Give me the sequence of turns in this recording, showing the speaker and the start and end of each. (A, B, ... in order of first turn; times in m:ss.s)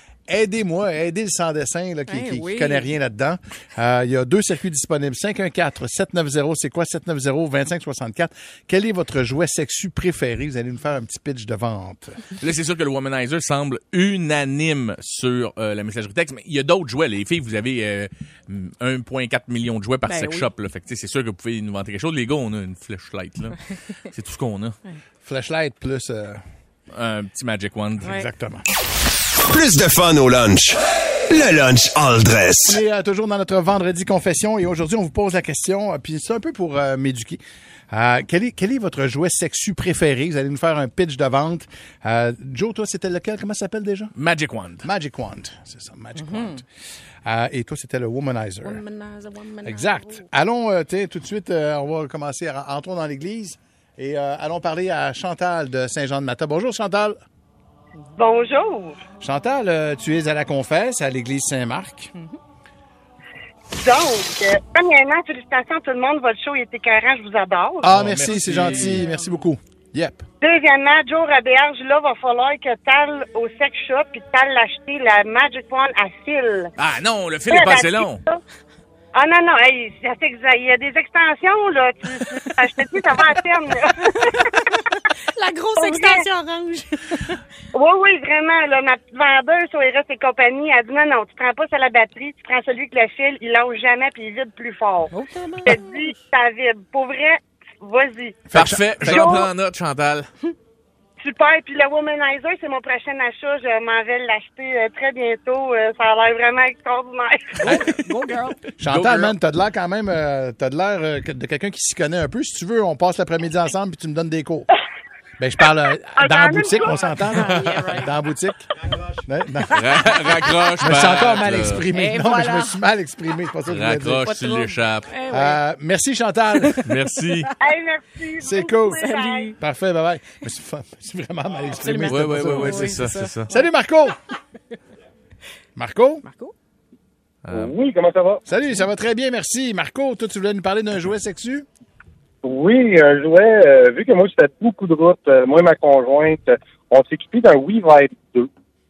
0:00.3-0:12.3 A
0:02.1-0:02.9 B
0:12.4-0:24.8 C
0:20.0-0:20.5 B
0:25.2-0:26.4 A
0:26.9-0:28.1 C
0:28.0-0:28.6 A
0:29.4-0:32.8 D
0:32.6-0:44.1 A
0:44.1-0:44.8 C
0:44.8-0:46.6 A
0:46.2-0:46.6 B
0:47.2-0:48.8 A
0:48.6-0:50.2 B
0:49.6-0:57.2 A
0:58.2-0:59.0 E
0:59.2-1:02.1 A
1:03.7-1:07.8 E
1:07.8-1:10.2 A
1:07.9-1:09.1 C
1:10.4-1:16.7 E
1:16.8-1:18.2 C
1:17.5-1:18.4 E
1:19.1-1:24.5 E
1:24.3-1:27.4 B
1:25.8-1:26.2 E
1:27.7-1:35.1 E
1:35.1-1:36.1 B
1:35.6-1:38.4 E
1:38.5-1:39.3 A
1:38.5-1:40.3 C
1:39.0-1:39.5 E
1:41.2-1:47.6 E
1:47.6-1:48.6 B
1:47.6-1:47.9 A
1:48.8-1:54.7 A
1:48.8-1:49.3 C
1:55.4-1:58.6 A
1:56.2-1:57.1 E
1:56.9-1:58.1 B
1:59.2-2:00.2 A
1:59.7-2:01.8 C
2:00.8-2:04.3 A
2:01.9-2:02.8 B
2:03.7-2:05.1 C
2:04.2-2:05.6 B
2:05.3-2:06.8 A
2:06.8-2:07.5 C
2:07.6-2:09.5 E
2:08.4-2:14.2 A
2:09.0-2:09.6 B
2:11.8-2:13.6 B
2:12.0-2:13.5 C
2:15.8-2:16.2 A
2:16.2-2:16.5 B
2:17.4-2:17.7 C
2:17.5-2:18.4 F
2:18.4-2:21.7 A
2:22.4-2:28.5 F